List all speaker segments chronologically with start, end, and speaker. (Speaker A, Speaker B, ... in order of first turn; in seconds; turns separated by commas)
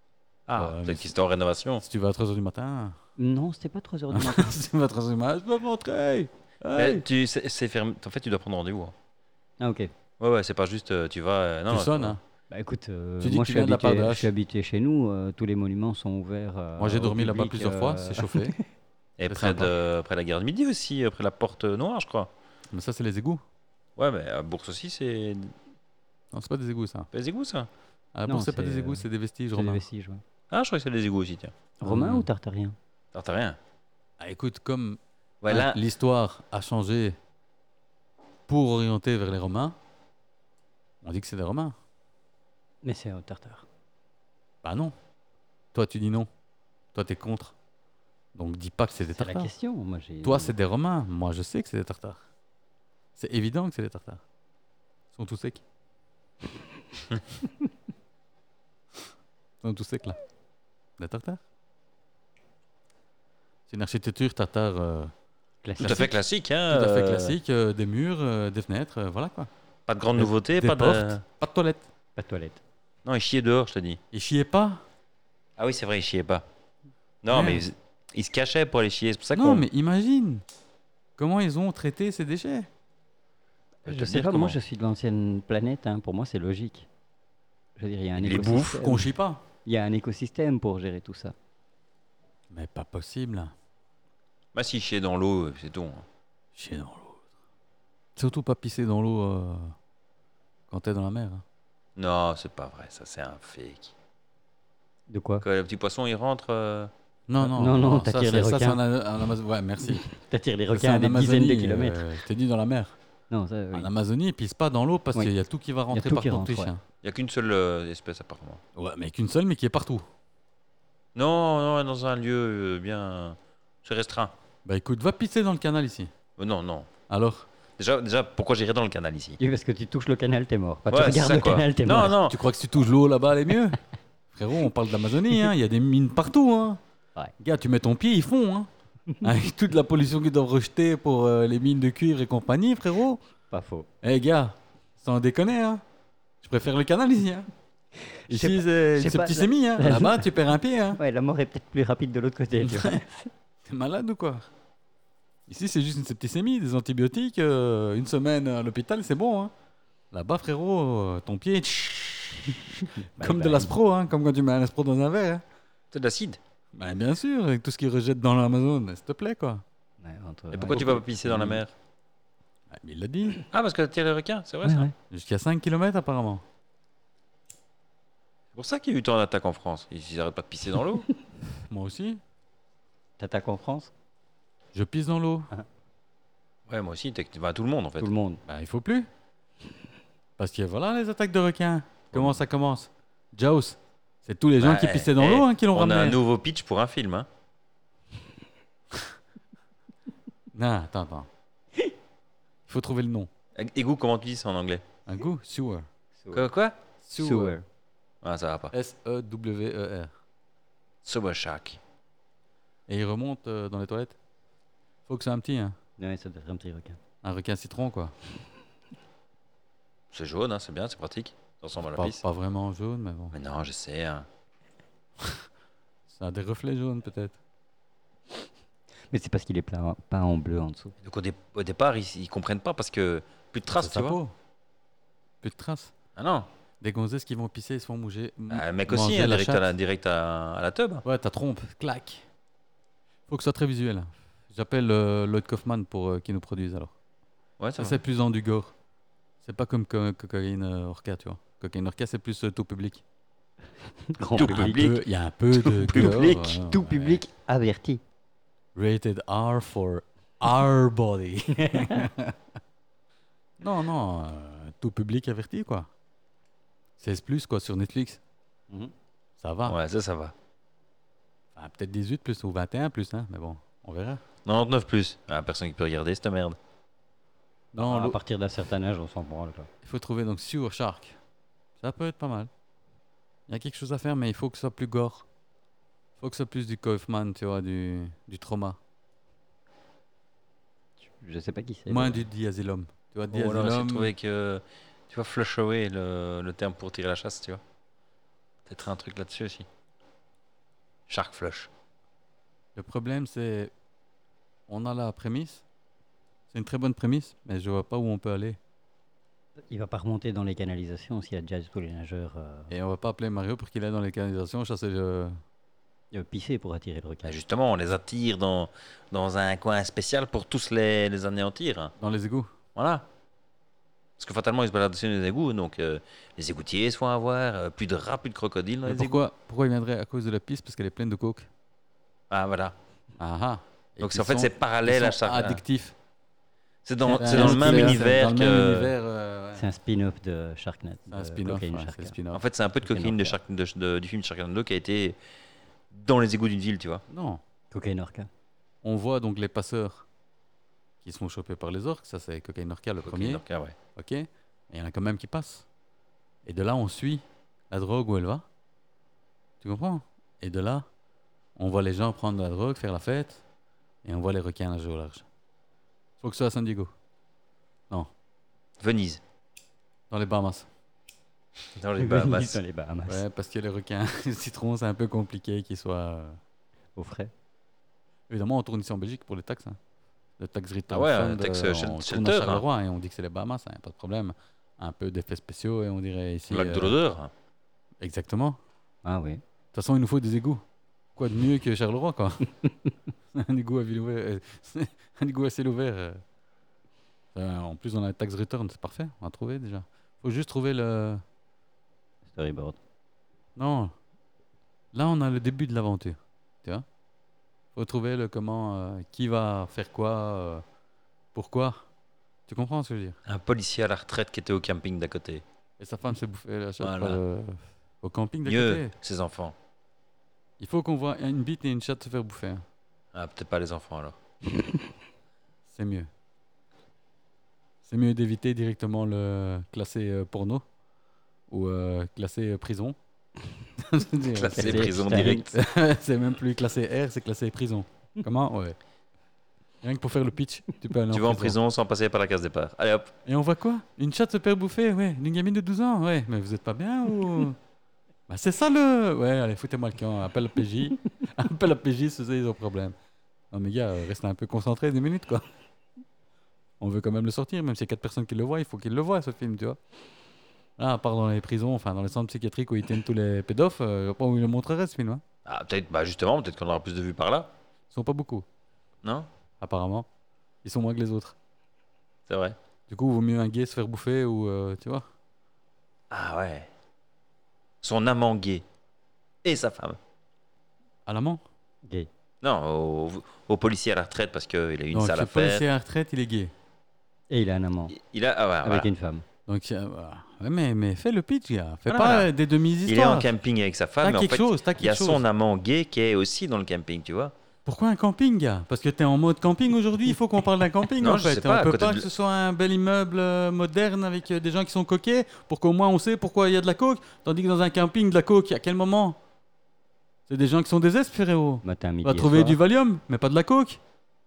Speaker A: 0.5-1.8, Speaker B: 0.5-1.1, Speaker B: 1.8-3.0, Speaker C: 3.2-4.5, Speaker B: 4.1-7.0, Speaker A: 6.8-8.9, Speaker C: 9.6-9.9, Speaker A: 10.2-12.2, Speaker B: 11.7-12.2, Speaker C: 12.5-18.6, Speaker B: 13.2-14.3, Speaker B: 16.8-18.6, Speaker A: 19.2-22.3, Speaker B: 19.3-19.7, Speaker B: 22.7-23.4, Speaker A: 24.0-25.5, Speaker B: 26.3-27.1, Speaker A: 27.1-27.7, Speaker B: 28.1-29.8, Speaker C: 28.3-30.2, Speaker A: 30.5-31.5, Speaker C: 31.8-32.8, Speaker B: 31.8-32.3, Speaker A: 33.1-33.6, Speaker B: 34.2-37.2, Speaker A: 35.4-35.8, Speaker B: 38.5-39.8, Speaker B: 41.0-41.8, Speaker C: 42.8-43.6, Speaker B: 44.6-44.9, Speaker B: 45.7-46.3, Speaker B: 46.9-47.5, Speaker B: 48.3-49.5, Speaker C: 49.1-50.5, Speaker B: 50.2-52.2, Speaker B: 53.1-54.2, Speaker B: 55.1-55.6, Speaker B: 59.6-60.2, Speaker B: 61.0-61.4, Speaker B: 63.7-65.1, Speaker C: 65.6-66.1, Speaker B: 65.8-66.2, Speaker A: 65.8-67.4, Speaker B: 66.7-69.5, Speaker A: 69.9-71.2, Speaker B: 70.2-71.9, Speaker C: 72.2-72.6, Speaker A: 73.0-74.0, Speaker B: 74.1-74.8, Speaker A: 75.6-76.4, Speaker A: 77.2-79.7, Speaker B: 77.3-77.6, Speaker B: 79.3-80.4, Speaker B: 81.2-82.7, Speaker A: 83.8-84.6, Speaker C: 83.8-86.9, Speaker C: 87.8-89.1, Speaker A: 88.2-88.8, Speaker B: 88.8-89.4, Speaker C: 89.6-91.3, Speaker B: 92.5-93.5, Speaker A: 94.5-96.0, Speaker B: 96.5-97.3, Speaker B: 98.2-99.7, Speaker B: 100.7-101.4, Speaker A: 102.0-103.9, Speaker C: 105.1-105.4, Speaker A: 105.4-106.9, Speaker B: 107.3-110.1, Speaker C: 107.4-108.8, Speaker C: 109.9-112.1, Speaker B: 110.7-113.0, Speaker C: 113.3-113.9, Speaker B: 113.7-116.8, Speaker C: 115.9-116.7, Speaker A: 117.0-118.6, Speaker B: 118.8-120.0, Speaker A: 121.1-124.3, Speaker B: 124.6-126.1, Speaker A: 126.4-126.9, Speaker B: 127.1-127.5, Speaker A: 127.8-129.4, Speaker C: 129.4-132.2, Speaker A: 130.9-132.4, Speaker B: 132.2-133.8, Speaker B: 134.3-136.8, Speaker B: 137.4-138.7, Speaker B: 139.2-143.2, Speaker C: 143.5-143.9, Speaker B: 144.0-145.8, Speaker B: 146.4-147.5, Speaker C: 148.2-150.3, Speaker B: 148.3-151.0, Speaker C: 150.9-153.3, Speaker B: 152.6-153.0, Speaker B: 153.6-154.5, Speaker B: 155.5-159.5, Speaker B: 160.1-165.4, Speaker C: 162.9-163.7, Speaker A: 165.9-166.4, Speaker B: 166.7-169.6, Speaker C: 170.0-171.6, Speaker A: 170.5-171.7, Speaker B: 172.7-173.4, Speaker A: 173.5-174.9, Speaker C: 174.6-174.9, Speaker B: 175.1-176.4, Speaker A: 178.5-181.1, Speaker B: 181.5-182.2, Speaker C: 183.2-183.9, Speaker B: 184.7-185.5, Speaker A: 186.7-188.1, Speaker C: 188.0-188.4, Speaker B: 188.4-189.1, Speaker B: 190.4-196.2, Speaker A: 194.6-197.3, Speaker B: 200.5-201.3, Speaker B: 202.7-203.3, Speaker A: 203.6-204.8, Speaker B: 205.1-205.9, Speaker C: 206.2-206.5, Speaker A: 206.3-206.8, Speaker B: 207.0-207.5, Speaker C: 207.1-207.6, Speaker A: 208.2-208.7, Speaker B: 208.7-210.1, Speaker A: 211.0-211.8, Speaker B: 212.9-214.2, Speaker B: 215.1-215.8, Speaker C: 216.0-217.0, Speaker B: 217.2-218.1, Speaker A: 220.1-222.2, Speaker B: 221.8-223.3, Speaker A: 223.3-224.3, Speaker B: 226.1-227.4, Speaker C: 229.1-230.9, Speaker A: 231.0-234.2, Speaker B: 233.7-234.3, Speaker B: 235.4-235.9, Speaker A: 236.2-236.5, Speaker B: 236.8-239.7, Speaker A: 238.5-241.0, Speaker B: 241.0-242.2, Speaker B: 243.3-246.9, Speaker A: 247.6-248.0, Speaker B: 247.8-248.7, Speaker B: 249.4-253.0, Speaker C: 254.0-254.8, Speaker A: 254.3-256.6, Speaker B: 254.4-257.2, Speaker C: 255.9-258.0, Speaker B: 258.7-262.4, Speaker C: 261.5-262.1, Speaker B: 263.6-265.9, Speaker B: 267.0-268.2, Speaker B: 269.4-269.8, Speaker A: 269.7-270.3, Speaker B: 271.5-274.2, Speaker A: 274.4-276.6, Speaker B: 277.7-278.2, Speaker C: 277.7-279.7, Speaker B: 279.8-281.2, Speaker B: 281.8-282.5, Speaker B: 283.5-285.2, Speaker B: 286.2-288.8, Speaker C: 291.0-292.2, Speaker B: 291.9-294.1, Speaker A: 293.3-297.6, Speaker A: 298.7-299.6, Speaker A: 301.1-301.7, Speaker B: 302.7-303.7, Speaker B: 304.7-305.6, Speaker B: 306.5-308.6, Speaker C: 309.7-312.7, Speaker B: 312.7-315.4, Speaker C: 316.1-317.4, Speaker A: 317.2-321.9, Speaker B: 322.0-322.5, Speaker A: 322.7-323.0, Speaker A: 324.2-329.2, Speaker B: 328.8-331.5, Speaker A: 332.3-332.7, Speaker B: 333.2-335.9, Speaker A: 334.0-335.6, Speaker A: 336.9-338.9, Speaker B: 337.0-339.6, Speaker C: 337.2-338.0, Speaker C: 339.5-342.1, Speaker B: 341.1-342.4, Speaker A: 342.3-345.2, Speaker C: 342.8-343.4, Speaker A: 345.9-347.0, Speaker B: 347.1-347.4, Speaker C: 347.7-348.3, Speaker B: 348.8-350.1, Speaker B: 351.0-353.4, Speaker A: 353.0-353.8, Speaker B: 353.9-355.6, Speaker B: 356.4-358.4, Speaker B: 359.6-360.9, Speaker B: 361.6-363.4, Speaker B: 364.0-365.3, Speaker B: 366.2-366.9, Speaker A: 368.8-369.2, Speaker B: 370.1-370.7, Speaker A: 371.8-372.6, Speaker C: 372.0-373.2, Speaker B: 373.1-376.4, Speaker C: 376.9-377.3, Speaker B: 378.3-379.8, Speaker B: 380.4-386.9, Speaker A: 380.9-382.6, Speaker A: 386.5-387.3, Speaker B: 388.0-388.6, Speaker C: 389.0-389.4, Speaker B: 389.7-390.6, Speaker B: 391.1-392.5, Speaker B: 393.3-396.2, Speaker B: 397.3-401.2, Speaker C: 402.3-402.8, Speaker B: 403.6-403.9, Speaker B: 404.9-406.8, Speaker B: 407.7-410.6, Speaker B: 411.3-411.9, Speaker B: 412.5-413.2, Speaker A: 413.2-415.4, Speaker B: 415.8-418.9, Speaker A: 416.8-417.2, Speaker A: 418.4-419.5, Speaker B: 420.6-422.6, Speaker A: 423.1-424.2, Speaker B: 425.7-426.1, Speaker B: 427.8-430.6, Speaker B: 431.5-433.0, Speaker B: 433.8-438.8, Speaker A: 434.3-435.6, Speaker C: 434.5-435.5, Speaker B: 439.8-441.6, Speaker A: 441.1-443.1, Speaker B: 443.2-447.6, Speaker B: 448.3-452.9, Speaker B: 453.5-455.4, Speaker B: 456.8-459.8, Speaker B: 460.8-465.2, Speaker A: 465.4-467.5, Speaker B: 467.9-468.4, Speaker B: 469.6-470.1, Speaker B: 470.6-471.4, Speaker A: 472.3-472.6, Speaker B: 472.9-475.1, Speaker A: 476.1-476.7, Speaker A: 477.8-478.6, Speaker A: 479.4-480.0, Speaker B: 481.1-481.4, Speaker A: 482.4-485.6, Speaker B: 484.9-486.5, Speaker C: 487.3-487.9, Speaker A: 487.9-488.9, Speaker C: 488.6-489.2, Speaker B: 489.5-493.3, Speaker A: 491.9-492.3, Speaker A: 492.9-497.3, Speaker B: 494.0-495.2, Speaker B: 497.6-509.2, Speaker A: 501.0-502.1, Speaker B: 510.3-513.8, Speaker C: 511.6-512.6